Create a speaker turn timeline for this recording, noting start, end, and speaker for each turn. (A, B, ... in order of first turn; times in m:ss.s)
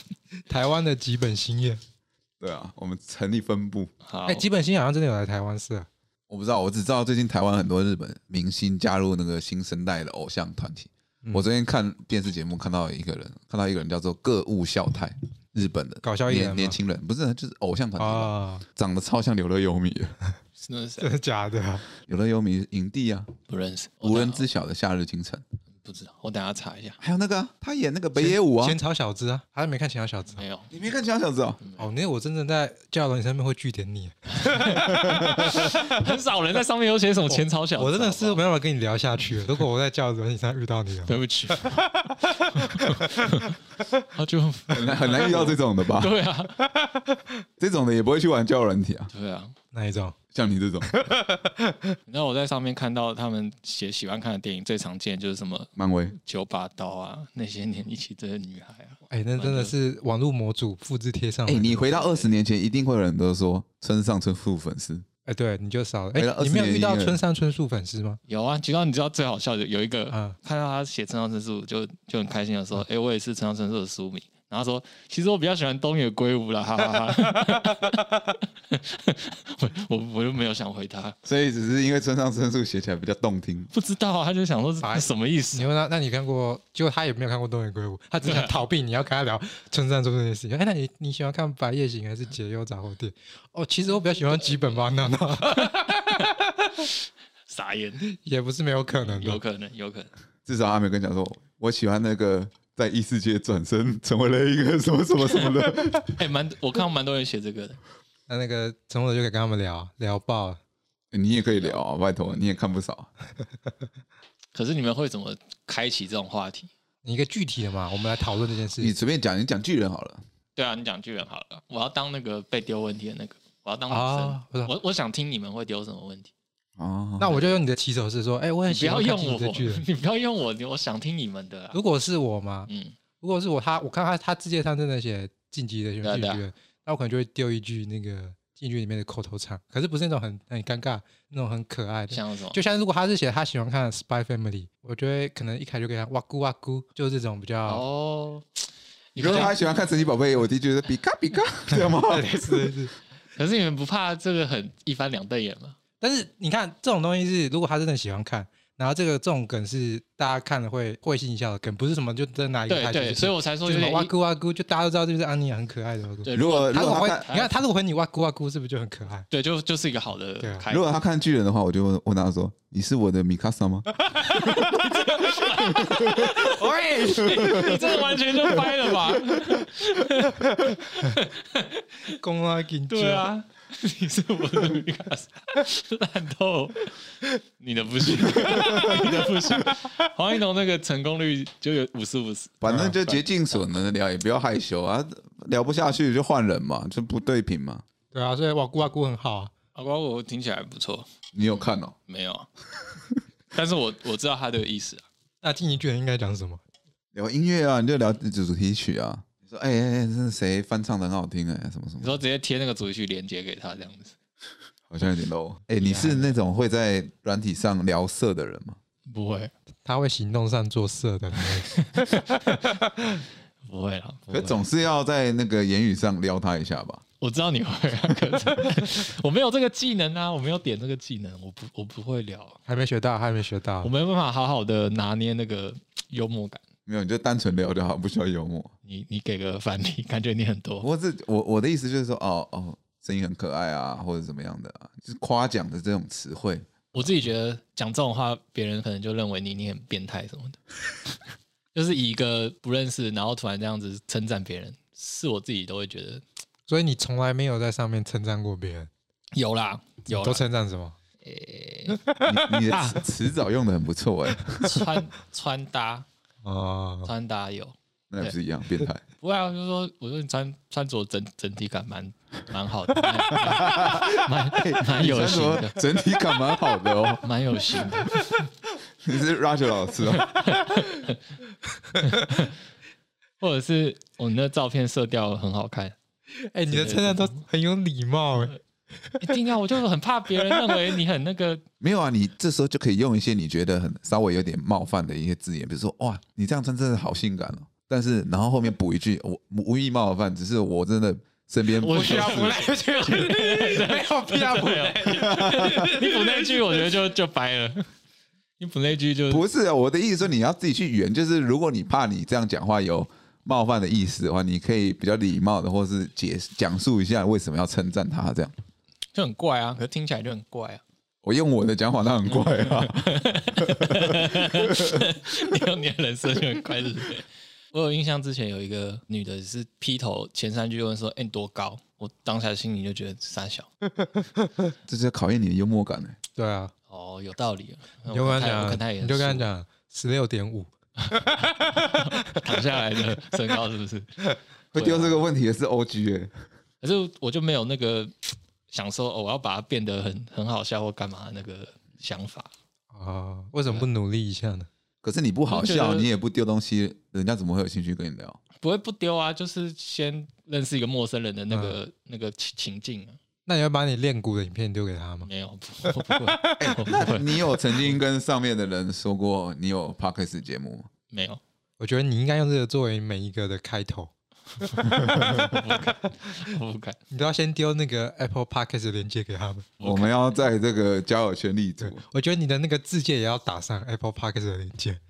0:00.5-0:01.8 A
0:02.4-0:03.9 B
0:04.1-0:04.5 C
0:04.3-0:05.9 A
0:06.3-0:20.1 B
0:16.0-0:16.8 A
0:18.0-0:18.6 A
0:20.6-0:21.1 C
0:21.0-0:21.8 A
0:22.0-0:23.3 B
0:23.5-0:24.4 C
0:24.0-0:25.4 B
0:25.8-0:27.0 C
0:27.0-0:28.8 B
0:28.2-0:30.4 A
0:30.4-0:30.7 C
0:30.7-0:31.6 B
0:31.6-0:31.9 C
0:31.8-0:36.0 A
0:34.4-0:38.4 C
0:37.3-0:43.3 A
0:41.1-0:41.8 C
0:42.4-0:43.6 C
0:44.1-0:46.6 C
0:44.7-0:46.1 B
0:46.6-0:47.3 A
0:47.6-0:49.1 B
0:49.1-0:49.5 C
0:49.7-0:50.1 A
0:50.3-0:51.1 B
0:50.8-0:51.9 A
0:52.1-0:59.7 C
0:55.8-0:56.1 B
0:59.1-1:01.8 A
1:01.5-1:05.0 B
1:01.9-1:02.3 C
1:05.3-1:08.2 A
1:06.1-1:07.2 B
1:08.3-1:18.0 C
1:10.1-1:10.4 A
1:17.1-1:18.0 A
1:18.7-1:21.2 C
1:21.2-1:23.7 B
1:23.7-1:25.6 C
1:24.8-1:36.9 A
1:28.2-1:28.5 C
1:35.6-1:36.4 C
1:37.5-1:38.1 C
1:38.1-1:39.4 A
1:39.0-1:40.1 C
1:40.5-1:46.1 B
1:46.1-1:47.8 C
1:48.3-1:50.6 A
1:51.1-1:53.1 B
1:54.6-1:56.7 C
1:57.0-1:58.9 A
1:58.8-2:00.2 B
2:00.6-2:06.3 C
2:03.9-2:04.7 A
2:06.8-2:07.3 B
2:07.2-2:09.8 A
2:07.2-2:07.6 C
2:08.7-2:11.8 C
2:11.7-2:12.7 A
2:12.7-2:13.0 C
2:13.2-2:27.8 A
2:16.0-2:16.4 C
2:22.1-2:22.6 C
2:27.6-2:29.6 C
2:29.2-2:32.7 B
2:31.7-2:32.9 A
2:33.4-2:35.8 C
2:36.0-2:49.3 A
2:42.7-2:44.1 C
2:46.2-2:47.5 C
2:46.3-2:47.3 B
2:49.3-2:50.9 C
2:50.7-2:54.6 B
2:54.2-2:54.7 A
2:54.2-3:02.2 C
2:55.8-2:56.3 B
2:55.9-2:58.1 A
3:02.1-3:03.3 A
3:02.9-3:06.9 C
3:07.6-3:13.6 C
3:08.4-3:09.1 A
3:08.6-3:09.0 B
3:12.6-3:17.8 B
3:12.7-3:12.9 A
3:18.1-3:19.5 A
3:19.8-3:21.1 C
3:21.3-3:22.0 B
3:22.1-3:22.5 C
3:23.5-3:25.0 C
3:25.4-3:26.6 A
3:27.1-3:32.2 B
3:32.0-3:34.2 C
3:34.9-3:38.8 B
3:35.8-3:36.4 C
3:39.1-3:39.5 C
3:39.8-3:43.2 A
3:41.4-3:42.7 C
3:43.7-3:44.6 C
3:44.3-3:47.0 B
3:47.2-3:52.6 C
3:52.7-3:53.9 A
3:53.8-3:56.6 C
3:56.9-3:58.7 B
3:58.8-4:00.9 C
4:00.8-4:06.7 B
4:06.9-4:11.2 C
4:11.7-4:16.2 C
4:16.7-4:18.9 A
4:19.3-4:20.4 C
4:20.1-4:21.0 A
4:21.2-4:22.0 C
4:21.9-4:22.6 A
4:22.2-4:24.9 B
4:22.7-4:23.0 C
4:24.6-4:26.1 C
4:26.4-4:27.1 A
4:27.0-4:28.3 C
4:28.1-4:29.0 B
4:29.2-4:35.8 C
4:33.5-4:37.3 B
4:37.2-4:38.2 C
4:39.0-4:40.6 B
4:40.1-4:41.2 C
4:42.0-4:42.5 C
4:43.4-4:46.0 C
4:46.4-4:49.4 A
4:46.7-4:47.4 C
4:49.2-4:51.6 C
4:50.4-4:50.8 A
4:51.8-5:02.6 B
5:01.8-5:07.9 C
5:01.9-5:07.0 A
5:05.2-5:05.9 B
5:08.6-5:09.4 C
5:09.3-5:18.5 B
5:19.1-5:20.8 C
5:21.2-5:25.0 B
5:22.3-5:33.7 C
5:34.0-5:34.5 A
5:34.9-5:36.2 B
5:36.4-5:36.7 A
5:36.9-5:39.5 C
5:38.1-5:42.8 A
5:41.0-5:44.1 C
5:44.7-5:46.3 B
5:44.8-5:45.2 C
5:46.8-5:52.5 C
5:52.9-5:54.7 A
5:55.0-5:58.4 B
5:55.5-5:56.1 C
5:58.6-6:03.2 C
6:01.5-6:01.8 A
6:03.5-6:05.3 A
6:05.2-6:07.5 C
6:05.8-6:06.8 A
6:06.6-6:10.9 B
6:11.1-6:11.4 C
6:11.8-6:15.8 A
6:14.6-6:17.0 C
6:17.1-6:19.7 A
6:19.8-6:20.1 C
6:19.8-6:22.0 B
6:21.8-6:25.0 A